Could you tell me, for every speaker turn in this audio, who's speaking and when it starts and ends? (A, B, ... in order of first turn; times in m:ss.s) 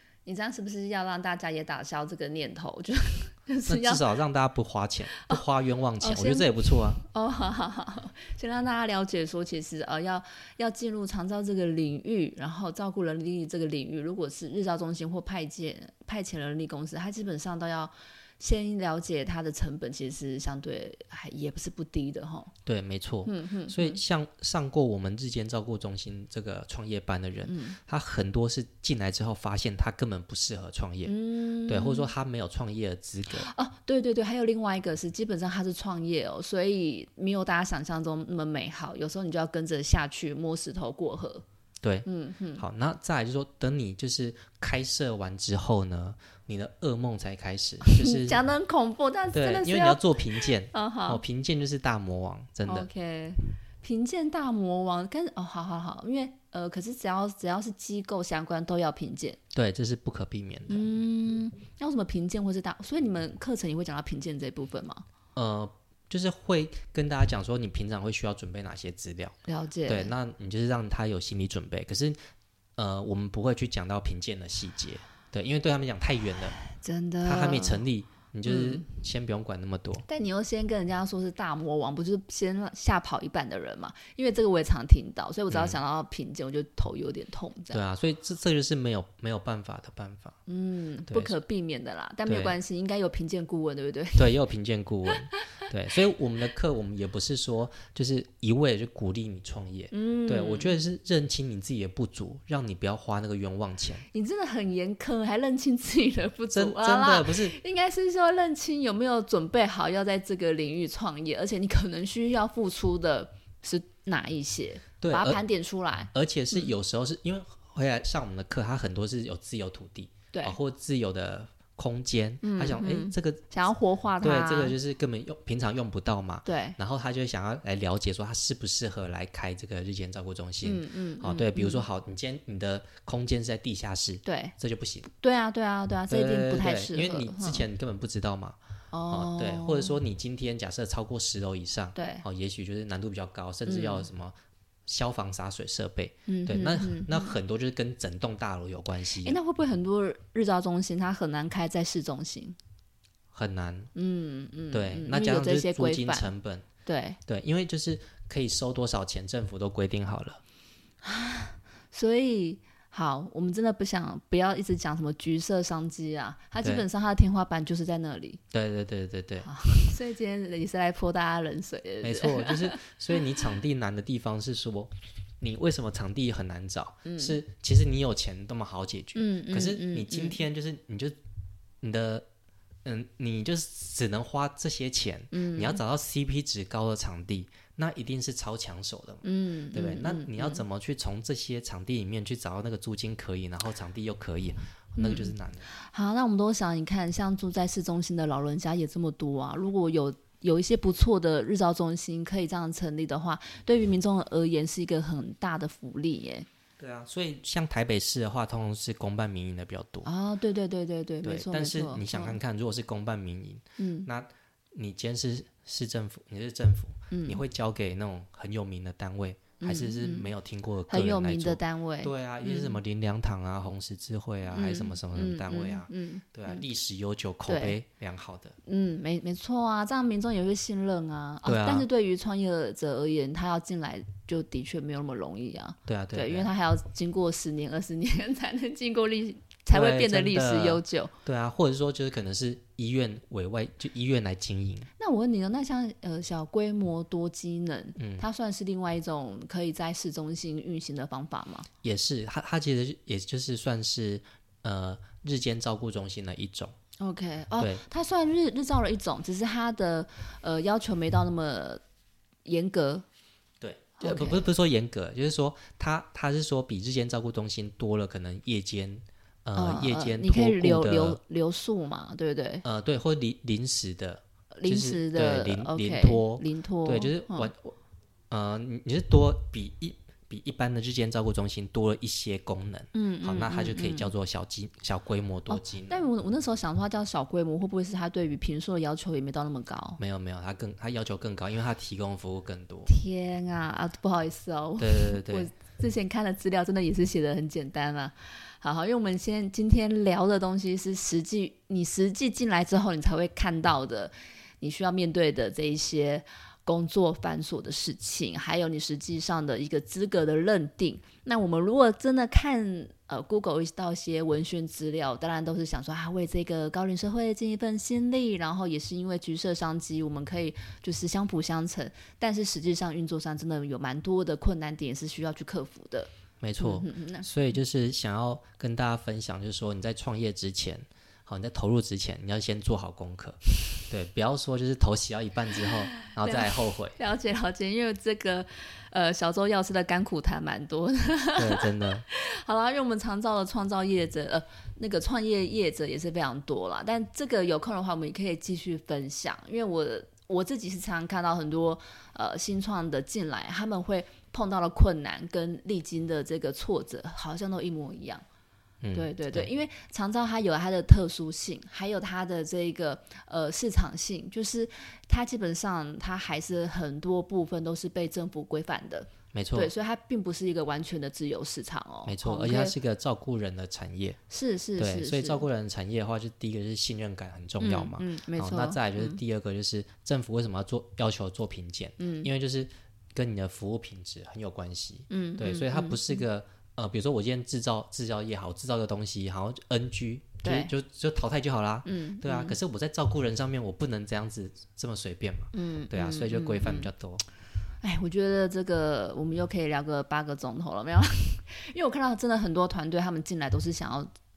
0:00.2-0:04.0 A
0:03.7-0:07.0 B
0:05.1-0:05.4 A
0:06.0-0:22.5 A
0:22.6-0:31.1 B
0:23.2-0:24.0 A
0:27.4-0:27.8 A
0:31.0-0:32.1 A
0:31.7-0:33.5 B
0:33.3-0:41.4 A
0:41.8-0:48.4 B
0:42.0-0:42.6 A
0:47.8-0:51.2 A
0:49.3-0:52.9 B
0:52.7-0:59.4 A
0:59.5-1:00.8 B
1:00.7-1:05.0 A
1:05.3-1:09.4 B
1:09.5-1:10.1 A
1:09.9-1:12.2 B
1:12.8-1:16.6 B
1:16.6-1:17.8 A
1:17.2-1:20.0 B
1:18.4-1:18.9 A
1:20.1-1:27.8 A
1:25.5-1:25.8 B
1:27.7-1:30.4 B
1:30.5-1:34.4 A
1:31.1-1:31.3 B
1:32.2-1:32.6 B
1:34.1-1:44.0 B
1:39.9-1:40.8 A
1:44.1-1:56.7 A
1:46.5-1:47.6 B
1:55.0-1:55.4 B
1:56.1-2:03.5 B
2:02.4-2:04.7 A
2:04.2-2:15.1 B
2:06.4-2:06.8 A
2:10.6-2:11.8 A
2:14.2-2:14.5 A
2:15.0-2:17.6 A
2:16.1-2:18.6 B
2:18.9-2:20.0 A
2:19.1-2:24.4 B
2:21.9-2:22.2 A
2:23.6-2:24.1 A
2:24.9-2:29.4 B
2:26.3-2:27.4 A
2:29.2-2:32.6 A
2:33.3-2:33.9 B
2:33.9-2:36.3 A
2:34.7-2:36.7 B
2:36.8-2:37.2 A
2:37.2-2:40.4 B
2:41.0-2:48.4 A
2:48.5-2:49.5 B
2:49.4-2:53.2 A
2:52.0-3:01.2 B
2:57.0-2:57.4 A
2:59.1-3:00.4 A
3:01.8-3:02.2 B
3:02.8-3:15.7 B
3:05.3-3:05.8 A
3:09.2-3:10.6 A
3:15.0-3:26.5 A
3:26.8-3:30.1 B
3:30.0-3:32.4 A
3:31.2-3:48.6 B
3:33.8-3:34.1 A
3:37.1-3:37.4 A
3:39.6-3:40.3 A
3:40.9-3:42.8 A
3:44.5-3:46.6 A
3:47.5-3:47.8 A
3:48.6-4:01.1 A
3:51.4-3:51.9 B
3:55.8-3:56.5 B
3:59.7-4:04.9 B
4:05.0-4:11.7 A
4:08.0-4:08.2 B
4:11.8-4:16.7 B
4:17.0-4:21.8 A
4:17.6-4:17.8 B
4:22.4-4:23.0 A
4:23.6-4:31.2 B
4:24.0-4:24.5 A
4:29.5-4:32.6 A
4:32.6-4:37.8 B
4:34.5-4:37.5 A
4:38.3-4:46.0 B
4:42.9-4:44.1 A
4:45.5-4:50.0 A
4:50.0-4:52.9 B
4:52.8-5:27.3 A
4:54.8-4:55.5 B
5:26.4-5:37.0 B
5:36.0-5:58.2 A
5:41.4-5:42.0 B
5:58.8-5:59.5 B
5:58.9-6:12.8 A
6:09.3-6:09.7 B
6:12.0-6:14.2 B
6:14.3-6:15.4 A
6:14.8-6:37.2 B
6:17.6-6:19.2 A
6:22.0-6:22.3 A
6:25.1-6:26.2 A
6:30.4-6:30.7 A
6:31.8-6:32.6 A
6:35.5-6:36.9 A
6:37.8-6:44.1 A